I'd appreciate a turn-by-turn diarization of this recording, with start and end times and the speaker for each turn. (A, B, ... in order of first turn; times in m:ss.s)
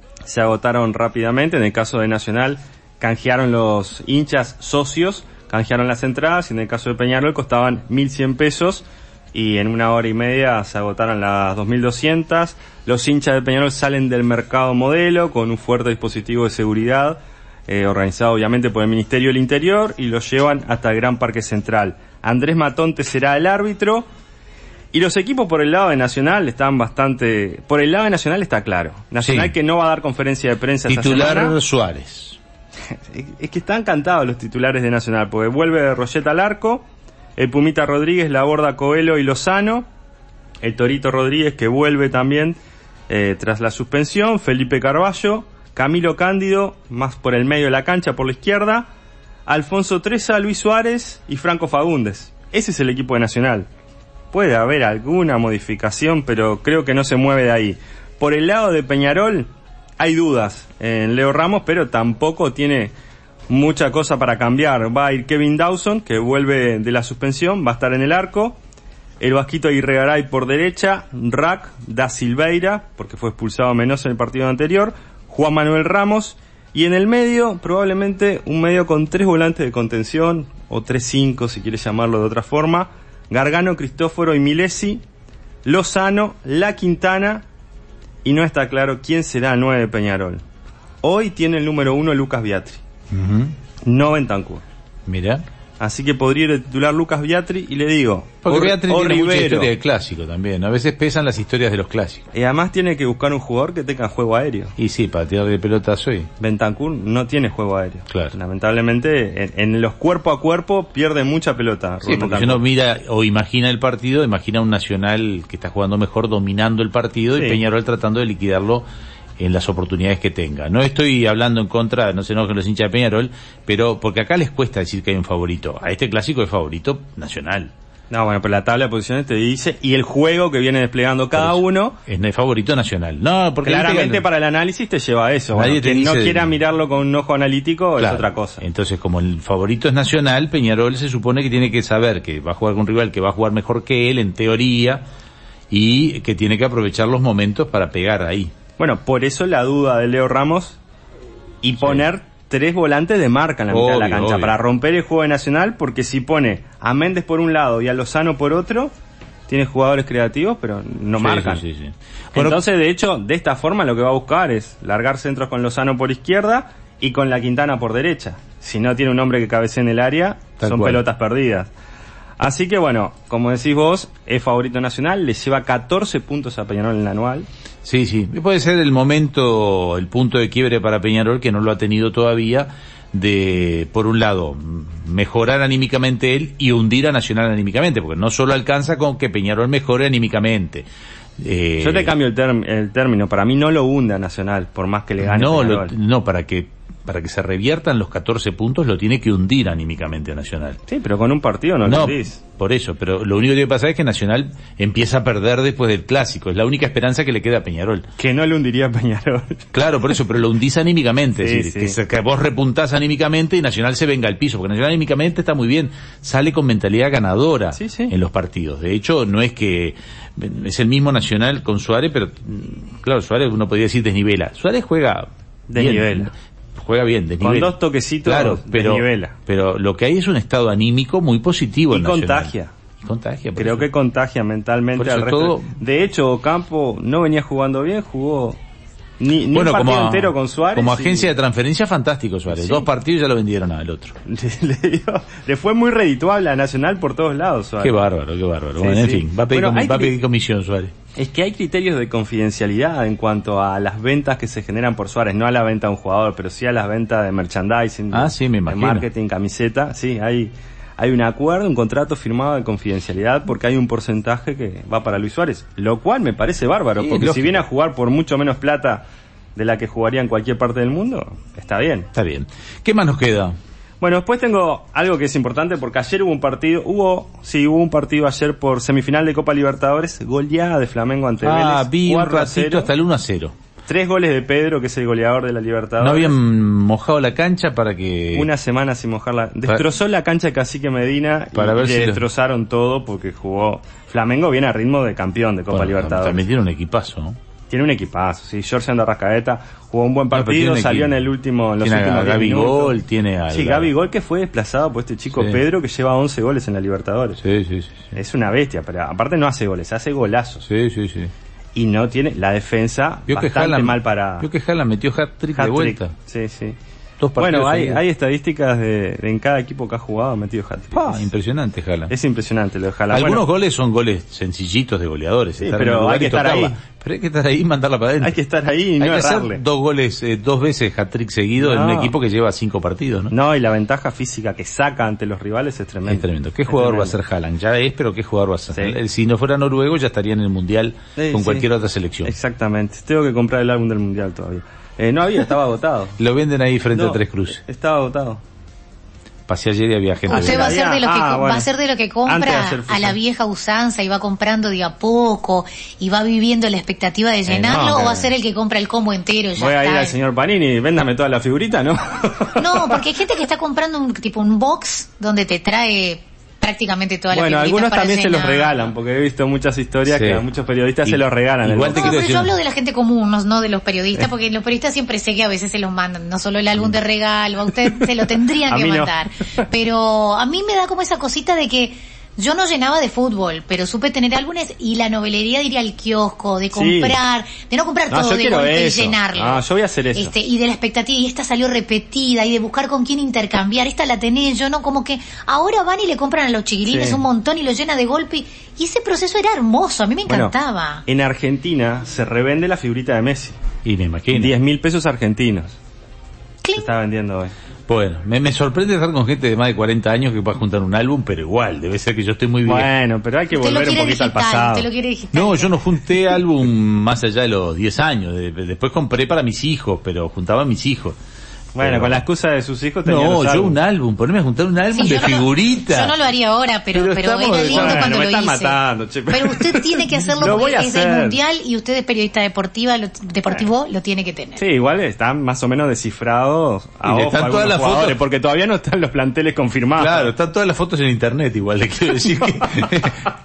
0:00.2-0:24.1 A
0:24.9-0:31.6 A
0:29.2-0:29.5 B
0:30.9-0:32.4 B
0:33.0-0:39.9 A
0:40.6-0:42.6 A
0:43.1-0:48.9 A
0:49.4-0:53.7 A
0:54.3-1:02.9 A
1:03.5-1:08.6 A
1:09.2-1:25.0 A
1:25.6-1:27.4 A
1:28.2-1:30.4 A
1:31.0-1:32.8 A
1:33.1-1:33.5 B
1:33.8-1:34.6 A
1:35.1-1:35.4 B
1:35.8-1:39.7 A
1:38.4-1:42.2 B
1:42.3-1:44.7 A
1:44.8-1:46.3 B
1:46.4-1:52.6 A
1:48.1-1:48.3 B
1:52.0-1:58.8 B
1:57.3-1:57.6 A
1:59.4-2:07.7 B
2:08.1-2:12.0 A
2:11.4-2:14.2 B
2:13.6-2:18.6 A
2:15.5-2:16.5 B
2:18.0-2:25.0 B
2:25.7-2:28.5 B
2:28.8-2:30.8 A
2:31.6-2:38.9 A
2:33.7-2:34.5 B
2:39.5-2:41.6 A
2:41.2-2:42.6 B
2:42.3-2:51.7 A
2:50.6-2:51.0 B
2:52.4-2:57.5 A
2:57.8-3:10.8 B
3:11.4-3:12.1 B
3:11.8-3:15.9 A
3:15.2-3:20.8 B
3:20.9-3:22.4 A
3:21.8-3:28.0 B
3:28.2-3:30.1 A
3:29.7-3:47.7 B
3:31.4-3:32.0 A
3:37.7-3:38.1 A
3:45.7-3:46.3 A
3:47.4-3:49.4 A
3:48.2-3:52.5 B
3:51.9-3:52.7 A
3:53.0-3:53.9 B
3:53.6-3:58.6 A
3:55.0-3:55.7 B
3:59.2-4:01.3 A
3:59.5-4:04.1 B
4:02.5-4:02.8 A
4:04.2-4:08.0 A
4:07.8-4:10.9 B
4:08.8-4:10.2 A
4:11.2-4:29.0 A
4:18.1-4:19.0 B
4:27.0-4:27.6 B
4:29.5-4:32.1 A
4:32.1-4:33.5 B
4:34.0-4:42.9 A
4:41.4-4:43.5 B
4:43.9-4:46.3 A
4:46.0-4:48.5 B
4:48.3-4:56.4 A
4:51.5-4:52.2 B
4:55.7-4:57.4 B
4:57.7-5:02.9 A
5:00.3-5:01.2 B
5:01.8-5:03.9 B
5:03.5-5:07.4 A
5:05.3-5:05.6 B
5:07.4-5:08.1 B
5:08.1-5:10.7 A
5:10.7-5:11.3 B
5:11.7-5:14.5 A
5:13.3-5:16.1 B
5:15.6-5:16.8 A
5:17.2-5:18.0 B
5:17.4-5:21.3 A
5:20.9-5:22.1 B
5:22.1-5:23.4 A
5:23.1-5:28.4 B
5:25.6-5:26.8 A
5:28.2-5:29.6 A
5:29.0-5:33.3 B
5:31.6-5:32.2 A
5:33.3-5:37.1 A
5:36.0-5:42.3 B
5:38.7-5:39.0 A
5:41.2-5:41.7 A
5:42.2-5:46.2 A
5:46.2-5:47.6 B
5:46.9-5:48.4 A
5:49.5-5:50.7 B
5:50.3-6:00.2 C
5:50.3-5:51.7 A
5:52.2-5:53.2 A
5:57.5-5:58.3 A
5:59.6-6:03.0 A
6:02.6-6:08.8 C
6:07.3-6:12.2 A
6:10.1-6:10.4 B
6:11.0-6:12.5 B
6:11.9-6:29.6 C
6:18.7-6:19.1 A
6:26.7-6:27.2 A
6:28.1-6:30.3 A
6:30.1-6:41.0 C
6:36.8-6:37.2 A
6:40.3-6:40.5 A
6:41.0-6:43.6 A
6:43.8-6:44.5 B
6:44.3-6:45.8 A
6:46.6-6:46.9 C
6:46.8-6:47.5 A
6:47.9-6:52.9 B
6:52.6-6:54.9 A
6:53.5-6:55.9 C
6:55.3-7:01.2 B
7:01.7-7:03.8 A
7:01.8-7:02.2 B
7:03.0-7:06.1 B
7:04.9-7:14.6 C
7:06.9-7:08.1 B
7:07.6-7:11.4 A
7:14.6-7:20.3 A
7:17.0-7:18.2 B
7:20.0-7:23.2 B
7:22.4-7:23.2 A